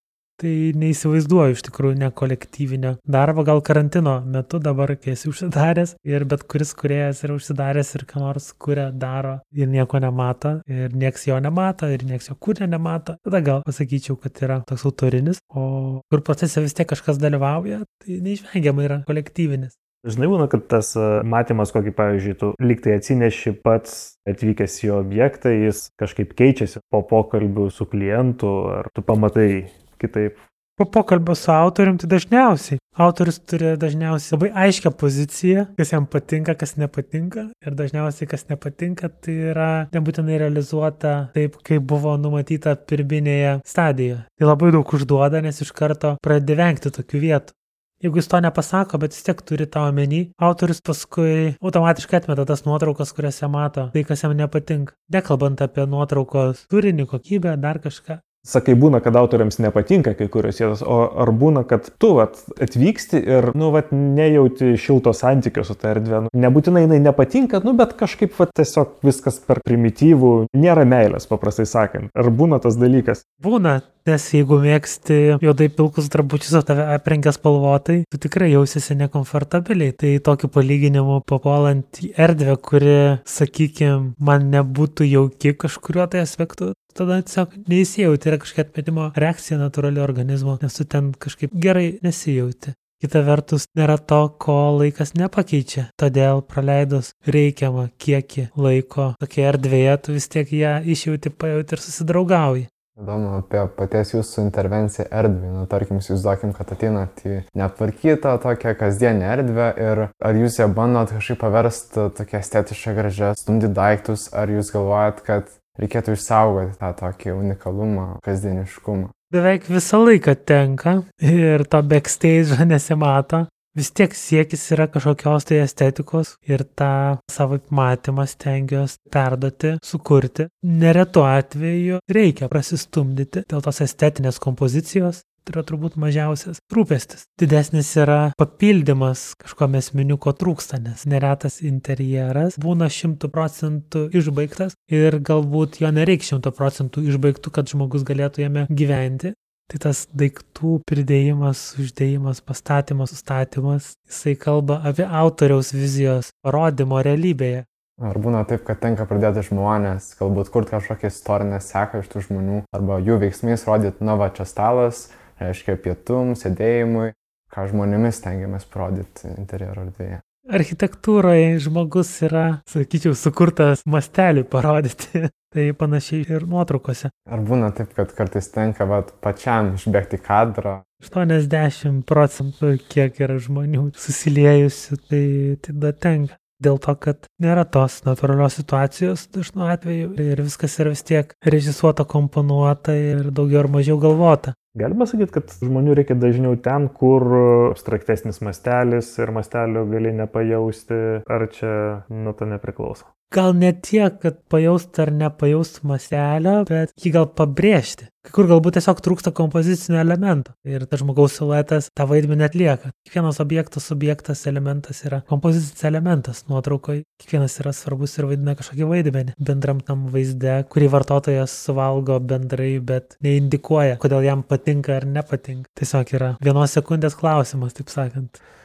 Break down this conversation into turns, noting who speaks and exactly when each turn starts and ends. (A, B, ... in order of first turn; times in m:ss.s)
0:00.4-0:19.7 A
0:20.0-0:30.4 B
0:30.8-0:58.2 A
0:58.4-1:13.2 B
1:13.4-1:42.7 A
1:43.0-1:59.1 C
1:59.3-2:37.6 A
2:38.0-2:50.2 C
2:50.5-2:57.1 A
2:57.3-3:00.8 C
3:01.0-3:14.5 A
3:14.7-3:23.1 B
3:23.3-3:48.4 A